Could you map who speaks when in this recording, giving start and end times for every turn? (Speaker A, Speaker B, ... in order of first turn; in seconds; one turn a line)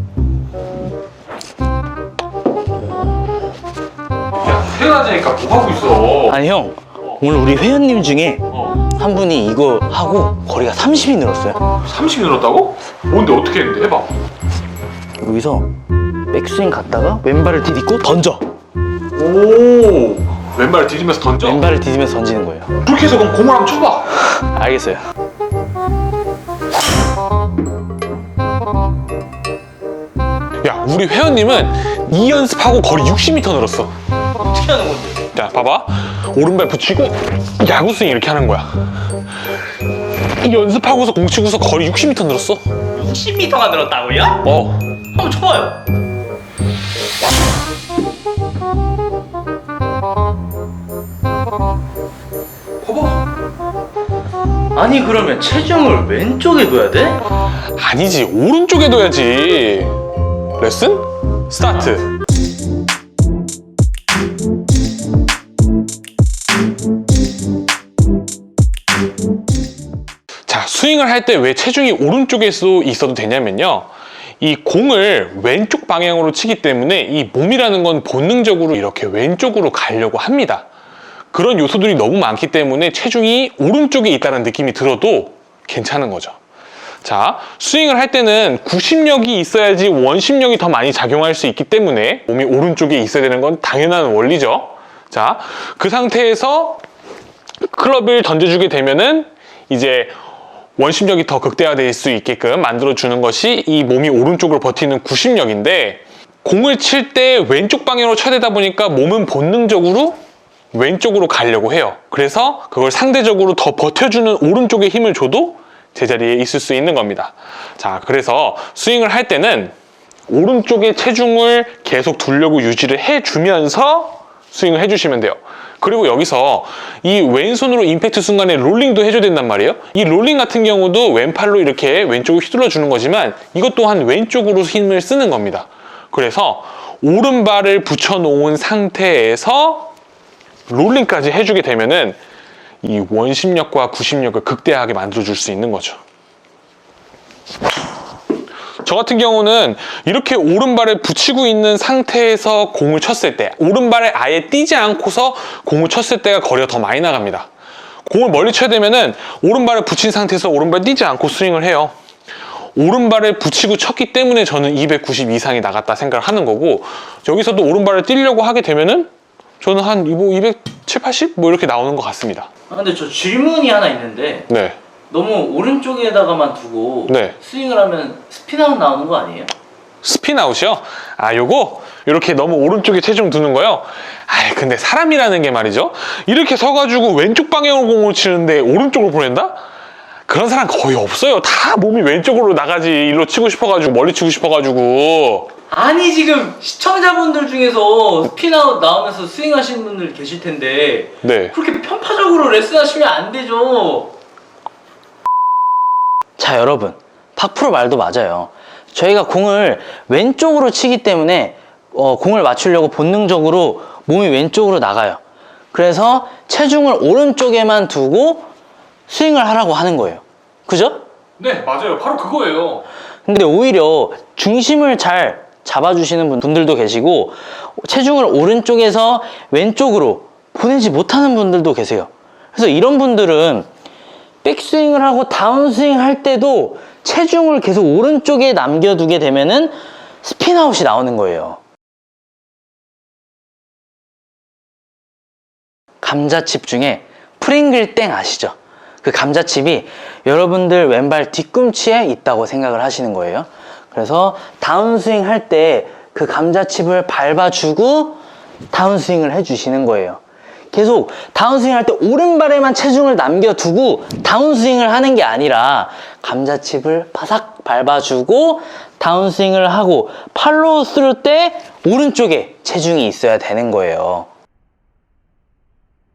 Speaker A: 4.4-6.3
Speaker B: 6.3-11.8
Speaker A: 11.8-14.1
Speaker B: 15.2-15.7
Speaker B: 16.3-18.4
Speaker A: 19.1-21.6
Speaker B: 21.4-22.7
Speaker A: 22.8-24.1
Speaker B: 24.3-25.0
Speaker A: 30.6-33.9
Speaker B: 34.4-35.2
Speaker A: 35.3-38.7
Speaker A: 40.4-42.6
Speaker B: 42.9-44.5
Speaker A: 44.4-44.8
Speaker B: 45.1-45.8
Speaker B: 54.7-57.2
Speaker A: 57.8-60.0
Speaker A: 60.6-62.1
Speaker A: 70.5-73.9
Speaker A: 74.4-80.7
Speaker A: 81.3-86.4
Speaker A: 87.0-96.8
Speaker A: 97.7-100.1
Speaker A: 100.8-110.1
Speaker A: 110.7-119.7
Speaker A: 120.3-139.9
Speaker A: 140.7-142.2
Speaker A: 142.8-146.0
Speaker A: 148.8-157.5
Speaker A: 158.1-161.9
Speaker A: 162.8-169.1
Speaker A: 169.6-172.5
Speaker B: 172.7-174.5
Speaker A: 174.5-174.8
Speaker B: 175.1-179.5
Speaker A: 177.1-177.3
Speaker A: 180.0-189.6
Speaker A: 190.3-195.5
Speaker B: 195.7-204.1
Speaker A: 201.2-201.5
Speaker B: 206.4-215.2
Speaker B: 215.7-218.5
Speaker B: 219.1-221.0
Speaker A: 221.4-222.8
Speaker B: 223.2-233.7
Speaker B: 234.4-241.6
Speaker B: 246.0-260.2
Speaker B: 260.7-274.3